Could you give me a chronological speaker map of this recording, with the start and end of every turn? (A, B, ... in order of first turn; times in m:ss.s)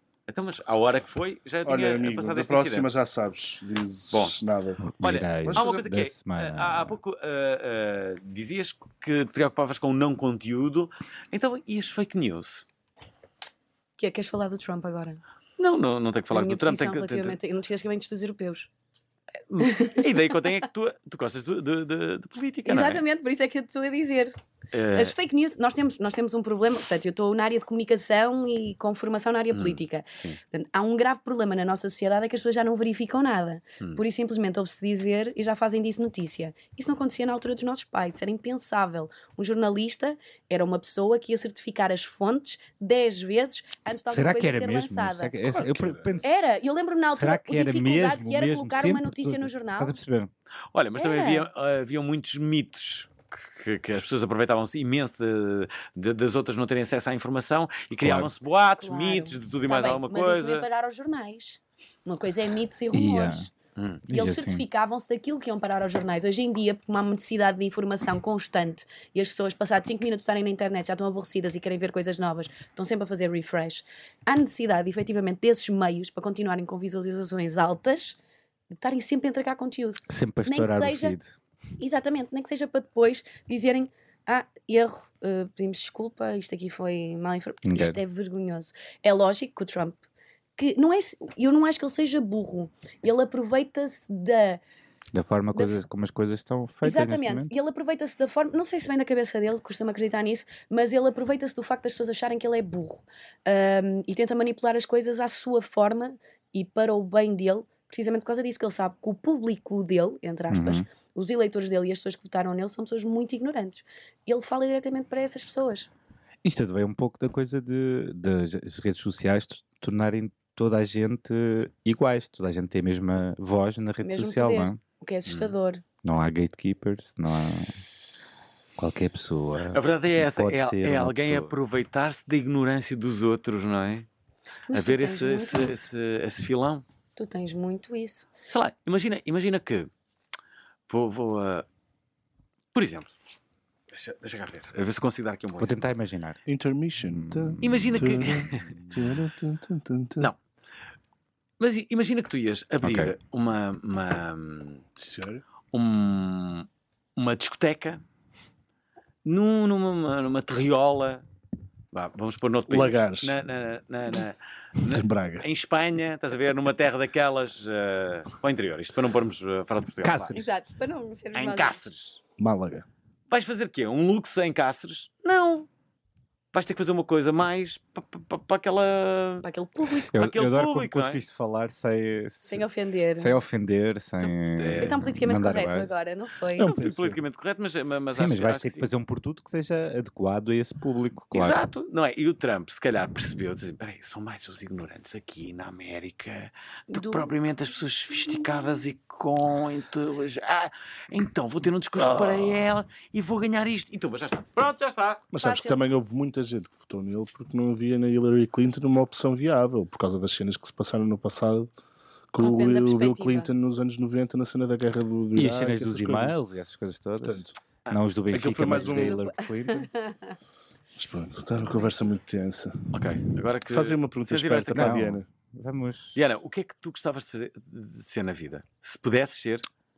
0:00.3-0:02.9 A
0:01.6-0:04.8 B
0:04.1-0:04.4 A
0:04.9-0:07.0 C
0:05.0-0:12.6 A
0:05.4-0:05.7 B
0:14.0-0:15.2 D
0:15.6-0:17.4 A
0:16.3-0:18.7 D
0:19.5-0:23.0 A
0:19.6-0:20.4 D
0:22.6-0:24.3 D
0:24.7-0:25.1 A
0:24.9-0:45.4 D
0:29.5-0:30.4 A
0:44.1-0:46.3 C
0:45.5-0:46.2 B
0:46.2-0:50.0 D
0:47.1-0:50.3 C
0:50.7-1:00.7 A
0:51.0-0:51.5 D
0:58.0-0:58.3 C
0:58.8-1:03.5 D
1:02.9-1:03.5 C
1:03.8-1:04.0 A
1:04.1-1:04.6 C
1:04.1-1:18.2 D
1:18.7-1:21.2 D
1:20.1-1:21.3 C
1:21.8-1:30.0 D
1:27.6-1:28.0 C
1:30.6-1:34.6 D
1:35.1-1:37.5 C
1:35.5-1:35.8 D
1:36.8-1:55.9 D
1:50.5-1:50.8 C
1:56.4-2:04.8 C
2:04.0-2:05.8 D
2:05.3-2:05.5 A
2:06.0-2:07.8 C
2:08.8-2:11.5 C
2:09.7-2:14.1 A
2:14.7-2:15.8 D
2:14.7-2:16.8 A
2:17.2-2:18.3 D
2:18.5-2:19.9 A
2:20.9-2:21.7 A
2:22.7-2:23.1 A
2:23.9-2:25.8 A
2:25.6-2:26.4 C
2:26.5-2:30.3 B
2:27.0-2:28.9 C
2:27.6-2:28.8 A
2:31.6-2:34.8 A
2:32.8-2:33.2 C
2:35.0-2:35.4 B
2:35.7-2:38.0 A
2:39.2-2:41.2 A
2:41.9-2:50.4 A
2:42.7-2:43.3 B
2:44.8-2:45.4 B
2:50.0-2:50.5 C
2:50.3-2:51.9 D
2:51.3-2:52.2 A
2:52.4-2:52.9 B
2:53.3-2:55.7 A
2:56.5-2:59.4 A
2:59.4-3:00.1 D
3:00.1-3:02.6 C
3:00.1-3:01.2 A
3:02.5-3:03.4 D
3:03.2-3:05.9 C
3:04.2-3:05.0 A
3:04.8-3:06.7 D
3:06.6-3:07.2 B
3:06.6-3:08.9 A
3:08.1-3:11.6 C
3:11.3-3:25.2 A
3:16.9-3:17.3 D
3:22.0-3:22.6 B
3:25.3-3:31.7 B
3:25.4-3:25.8 D
3:32.3-3:36.3 B
3:32.4-3:33.5 D
3:35.4-3:39.9 C
3:37.2-3:37.6 B
3:37.9-3:38.9 A
3:38.3-3:39.2 B
3:38.9-3:40.4 D
3:41.0-3:42.8 B
3:42.9-3:45.0 A
3:43.7-3:45.3 B
3:44.7-3:46.2 C
3:46.2-3:49.7 A